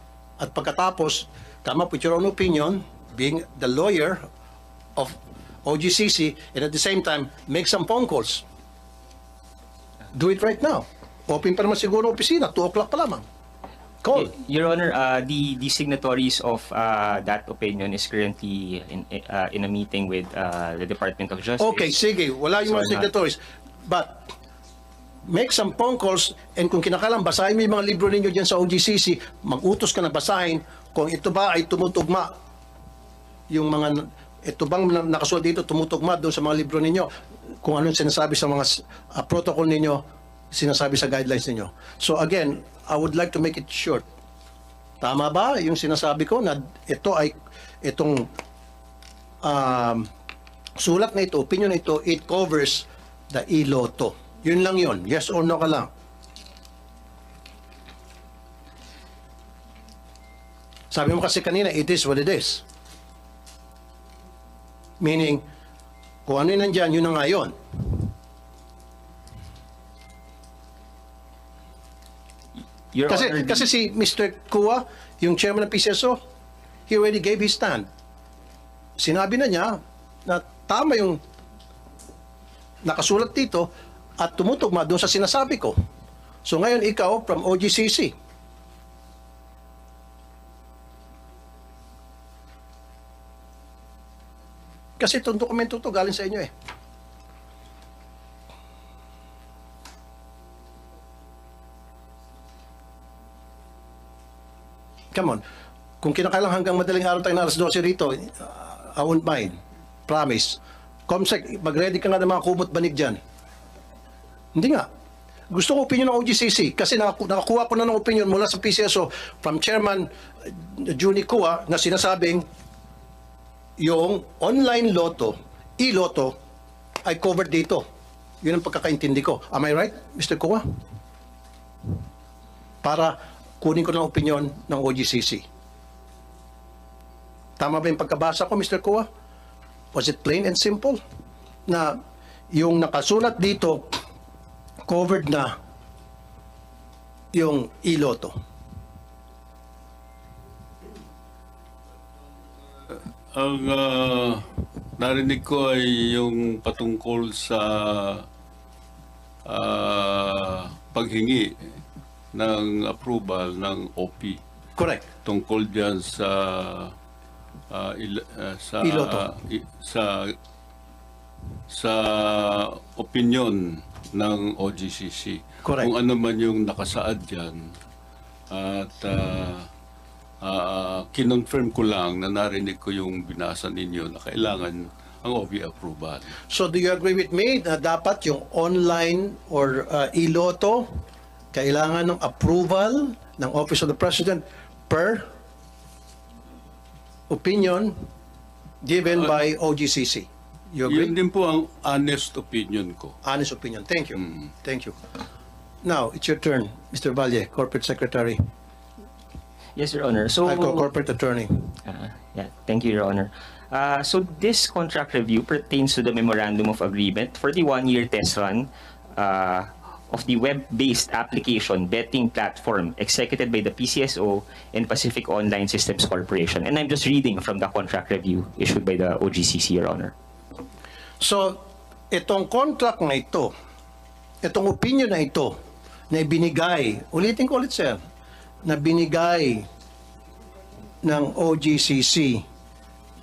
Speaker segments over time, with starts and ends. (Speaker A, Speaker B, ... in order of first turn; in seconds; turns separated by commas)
Speaker A: 0.4-4.2, Speaker A: 5.0-8.4, Speaker A: 10.1-13.2, Speaker A: 14.0-14.3, Speaker B: 14.1-22.0, Speaker A: 21.6-24.3, Speaker B: 22.6-23.1, Speaker A: 25.3-32.3, Speaker A: 33.5-37.1, Speaker A: 37.6-44.0, Speaker A: 45.0-48.3, Speaker A: 49.4-50.1, Speaker A: 50.8-55.9, Speaker A: 60.9-62.6, Speaker A: 65.0-65.4, Speaker A: 66.3-67.5, Speaker B: 72.9-73.7, Speaker A: 73.1-76.2, Speaker A: 76.9-77.9, Speaker A: 79.0-81.2, Speaker A: 82.8-85.8, Speaker A: 86.5-88.1, Speaker A: 95.0-96.5, Speaker A: 105.1-105.4, Speaker A: 106.0-109.5, Speaker A: 110.1-113.2, Speaker A: 114.5-114.9, Speaker A: 115.5-122.5, Speaker A: 123.8-126.3, Speaker A: 127.0-127.8, Speaker A: 128.4-130.6, Speaker A: 132.8-135.4, Speaker A: 137.6-139.1, Speaker A: 139.9-141.0, Speaker A: 141.7-142.0, Speaker A: 142.5-144.0, Speaker A: 144.9-145.6, Speaker A: 147.3-148.3, Speaker C: 152.9-158.3, Speaker C: 159.5-161.7, Speaker C: 162.3-164.4, Speaker A: 164.8-165.1, Speaker C: 165.2-166.9, Speaker C: 167.7-170.3, Speaker A: 168.8-169.3, Speaker C: 171.7-177.7, Speaker A: 175.6-175.9, Speaker C: 178.5-179.6, Speaker C: 180.4-186.3, Speaker A: 186.5-190.9, Speaker A: 191.5-195.3, Speaker A: 197.3-198.0, Speaker A: 198.8-201.1, Speaker C: 200.8-203.2, Speaker A: 203.2-205.0, Speaker A: 205.8-208.4, Speaker B: 209.8-210.9, Speaker A: 210.4-211.7, Speaker B: 211.8-230.1, Speaker A: 231.2-233.5, Speaker A: 234.4-235.6, Speaker A: 236.1-238.0, Speaker A: 238.7-239.7, Speaker A: 241.0-242.4